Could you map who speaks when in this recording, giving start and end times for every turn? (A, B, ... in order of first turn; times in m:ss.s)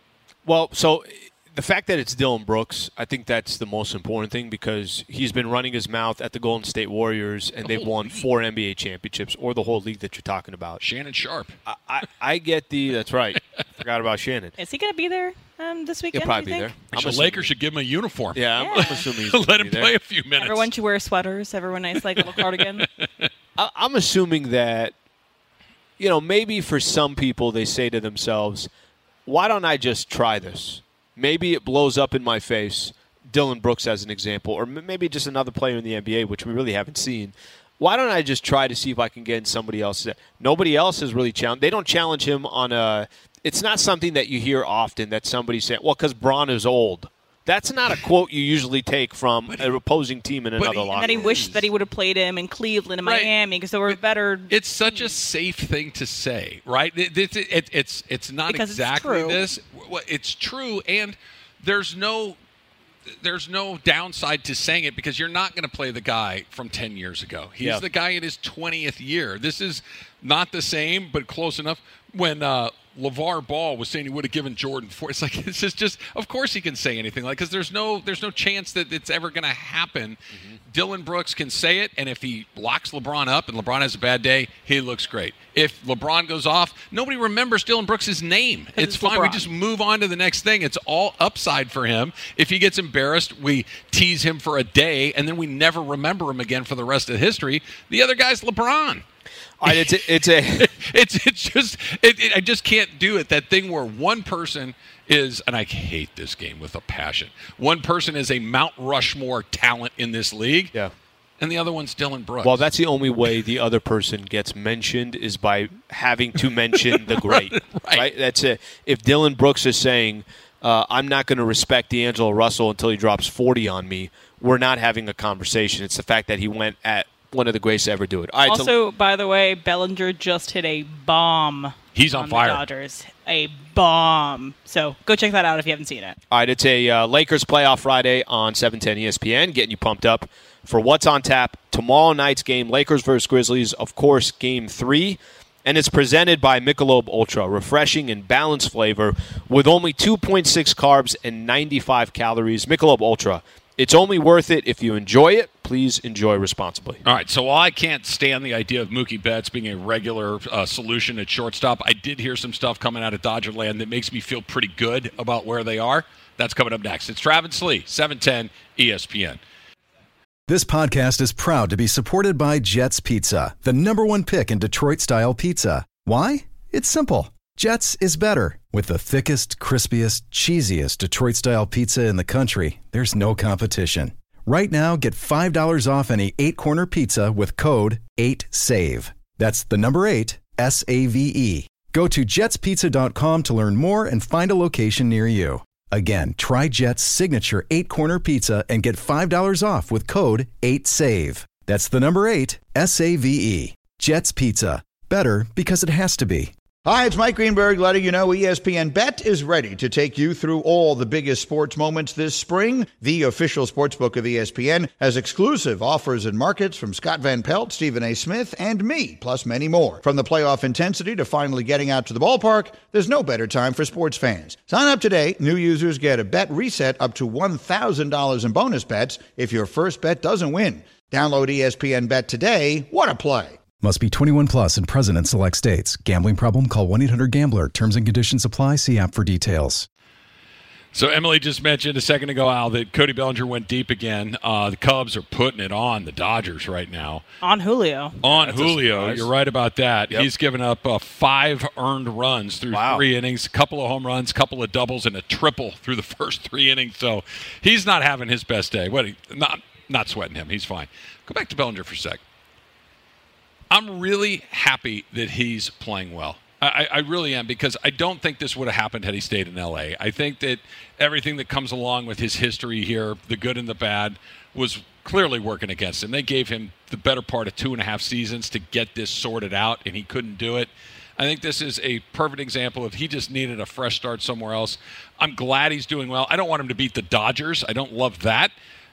0:00.4-0:10.8 A
0:07.6-0:08.3 B
0:10.8-0:11.6 B
0:11.7-0:14.5 A
0:14.6-0:16.7 C
0:16.1-0:17.5 A
0:16.9-0:20.7 B
0:18.4-0:19.9 A
0:18.6-0:19.0 C
0:20.4-0:22.9 C
0:22.2-0:23.3 B
0:23.6-0:24.9 A
0:26.0-0:28.7 A
0:29.3-0:51.6 A
0:50.6-0:51.6 B
0:50.9-0:55.1 C
0:53.0-0:53.3 B
0:54.5-1:02.4 B
0:58.5-0:59.4 C
1:03.2-1:20.2 B
1:20.7-1:39.0 B
1:28.8-1:29.4 C
1:39.6-1:40.7 A
1:40.6-1:50.7 B
1:51.4-1:52.7 B
1:52.4-2:08.7 A
1:56.8-1:58.1 B
2:08.5-2:16.2 C
2:12.0-2:12.6 B
2:16.3-2:37.0 A
2:37.0-2:49.4 B
2:50.5-3:26.5 D
3:26.9-3:53.6 E
3:53.8-3:59.9 D
4:00.9-4:07.2 B
4:07.4-4:08.2 C
4:08.2-4:22.2 B
4:08.3-4:09.3 A
4:12.7-4:13.0 A
4:23.7-4:48.5 B